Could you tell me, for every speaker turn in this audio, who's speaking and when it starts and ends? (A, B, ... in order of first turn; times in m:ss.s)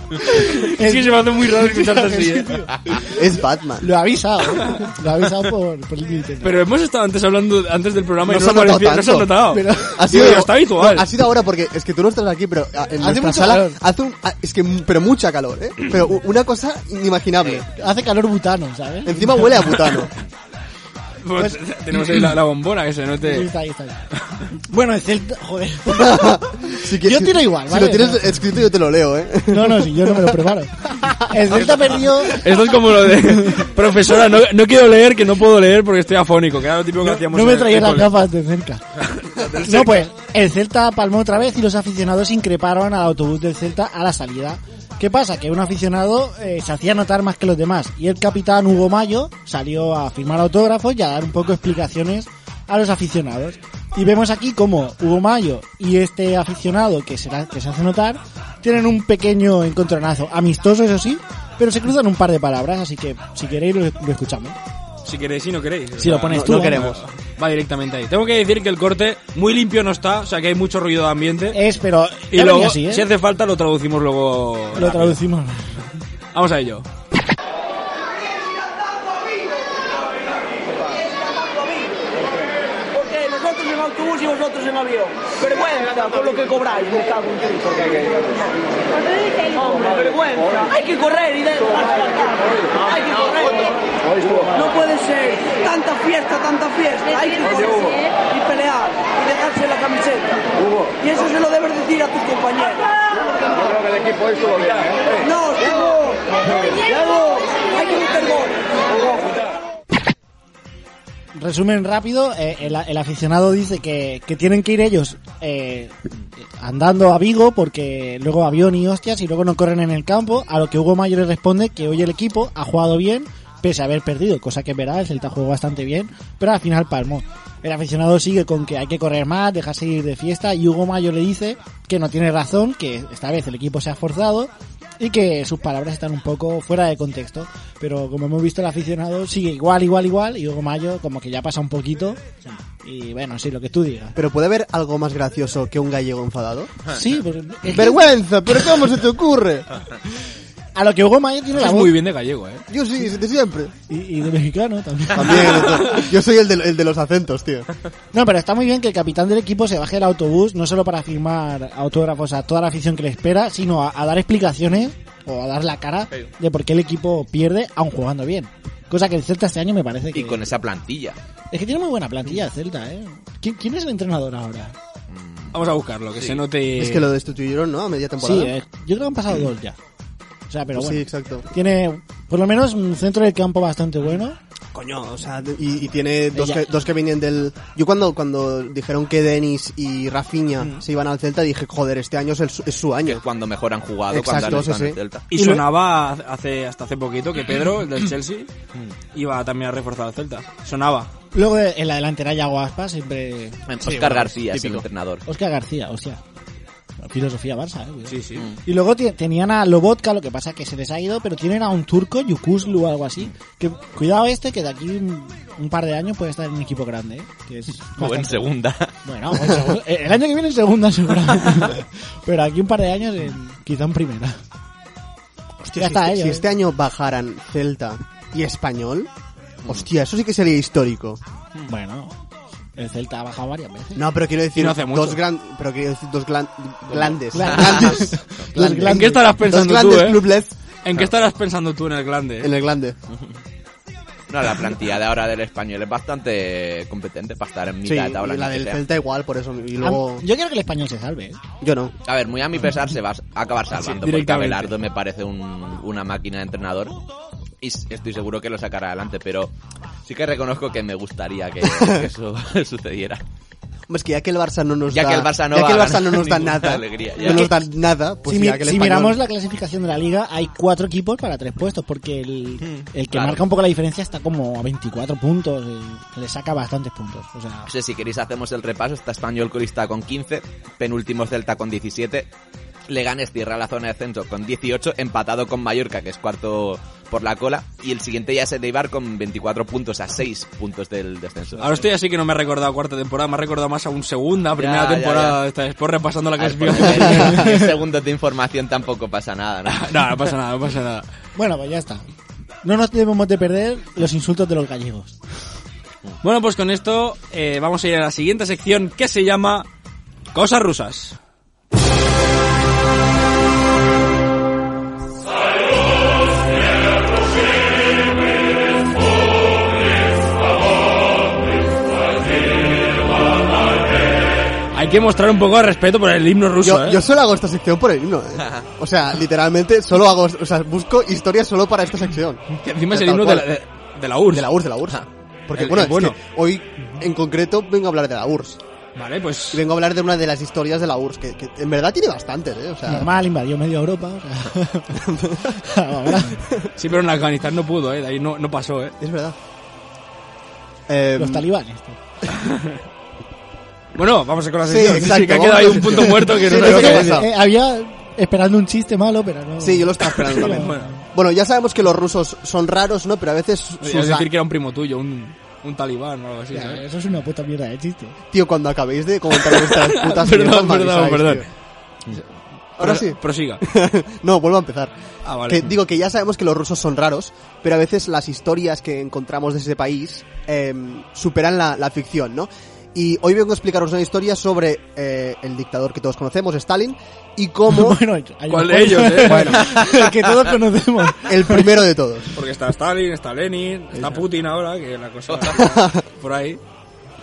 0:00.2-0:03.1 A
0:00.3-0:02.6 B
0:03.0-0:03.8 C
0:03.8-0:06.6 A
0:06.4-0:11.1 B
0:08.2-0:17.7 C
0:09.5-0:10.3 A
0:13.0-0:13.8 A
0:17.8-0:19.7 A
0:19.0-0:20.1 C
0:21.2-0:23.5 B
0:23.2-0:24.0 A
0:24.7-0:28.3 A
0:25.9-0:30.4 C
0:29.5-0:32.4 A
0:32.2-0:38.2 B
0:33.3-0:33.7 A
0:37.0-0:38.8 A
0:39.1-0:40.0 B
0:39.6-1:04.6 A
1:05.0-1:11.6 B
1:06.0-1:06.9 A
1:06.3-1:07.0 C
1:11.5-1:13.0 A
1:12.3-1:15.2 B
1:14.7-1:15.7 A
1:16.3-1:16.8 B
1:23.6-1:24.3 D
1:25.8-1:27.0 D
1:34.6-1:35.0 D
1:37.1-1:37.7 D
1:51.3-2:22.2 A
2:22.8-2:24.2 A
2:24.2-2:26.7 C
2:26.9-2:28.0 A
2:27.6-2:29.8 C
2:30.7-2:31.9 A
2:31.6-2:32.6 B
2:32.7-2:33.7 C
2:33.9-2:35.9 A
2:35.1-2:37.7 C
2:38.1-2:50.4 A
2:50.1-2:51.2 E
2:51.5-2:54.7 A
2:55.1-2:55.6 E
2:55.5-2:57.1 B
2:56.8-2:58.5 C
2:58.2-2:59.8 A
3:00.5-3:04.4 A
3:00.7-3:01.5 C
3:04.7-3:13.2 C
3:06.3-3:06.6 A
3:13.0-3:15.2 E
3:14.1-3:15.0 C
3:15.3-3:18.5 B
3:15.3-3:15.6 A
3:19.1-3:21.1 B
3:21.3-3:23.6 A
3:23.7-3:25.2 E
3:23.8-3:24.9 C
3:25.2-3:26.2 A
3:27.0-3:38.5 A
3:28.0-3:28.5 B
3:38.0-3:38.9 E
3:39.0-3:44.4 A
3:45.6-3:49.1 C
3:45.7-3:46.4 A
3:49.6-3:51.2 C
3:51.7-3:52.1 A
3:52.8-3:54.0 A
3:53.9-4:00.5 C
3:54.6-3:55.2 B
3:57.3-3:59.3 A
3:58.9-4:00.2 B
4:00.8-4:02.5 B
4:02.4-4:03.0 C
4:04.3-4:08.8 E
4:07.8-4:10.2 C
4:09.8-4:11.4 A
4:11.6-4:11.9 C
4:12.0-4:17.0 E
4:13.7-4:14.7 B
4:17.6-4:19.5 E
4:20.0-4:23.2 E
4:21.6-4:22.1 C
4:23.9-4:29.2 C
4:24.9-4:27.5 E
4:27.2-4:27.6 A
4:28.2-4:37.7 A
4:32.6-4:33.4 E
4:37.7-4:42.3 E
4:42.9-4:51.7 E
4:51.6-4:57.4 B
4:54.6-4:55.4 E
4:56.4-5:00.0 E
4:57.1-4:57.6 A
4:59.6-5:01.0 B
5:01.4-5:02.0 A
5:02.6-5:05.2 A
5:06.2-5:09.7 B
5:10.3-5:11.2 B
5:24.7-5:27.0 B
5:26.6-5:33.5 C
5:32.6-5:34.5 B
5:34.3-5:38.6 C
5:35.5-5:36.2 B
5:39.0-5:39.6 B
5:39.5-5:43.1 C
5:42.9-5:45.0 A
5:44.9-5:45.5 C
5:45.6-5:46.4 A
5:46.8-5:49.0 B
5:49.0-5:49.4 C
5:50.9-5:51.4 C
5:51.2-5:52.0 A
5:52.3-5:52.7 B
5:53.9-5:57.2 B
5:54.6-5:57.3 C
5:56.5-6:01.0 A
5:59.6-6:04.3 C
6:00.3-6:00.9 B
6:03.8-6:06.8 B
6:06.5-6:08.2 A
6:08.3-6:11.5 C
6:09.4-6:11.4 B
6:12.8-6:13.6 B
6:12.8-6:14.9 C
6:15.2-6:15.7 B
6:15.4-6:28.0 C
6:27.7-6:31.8 A
6:28.5-6:29.6 B
6:29.2-6:29.8 C
6:31.2-6:32.4 C
6:32.3-6:36.6 B
6:35.6-6:36.0 C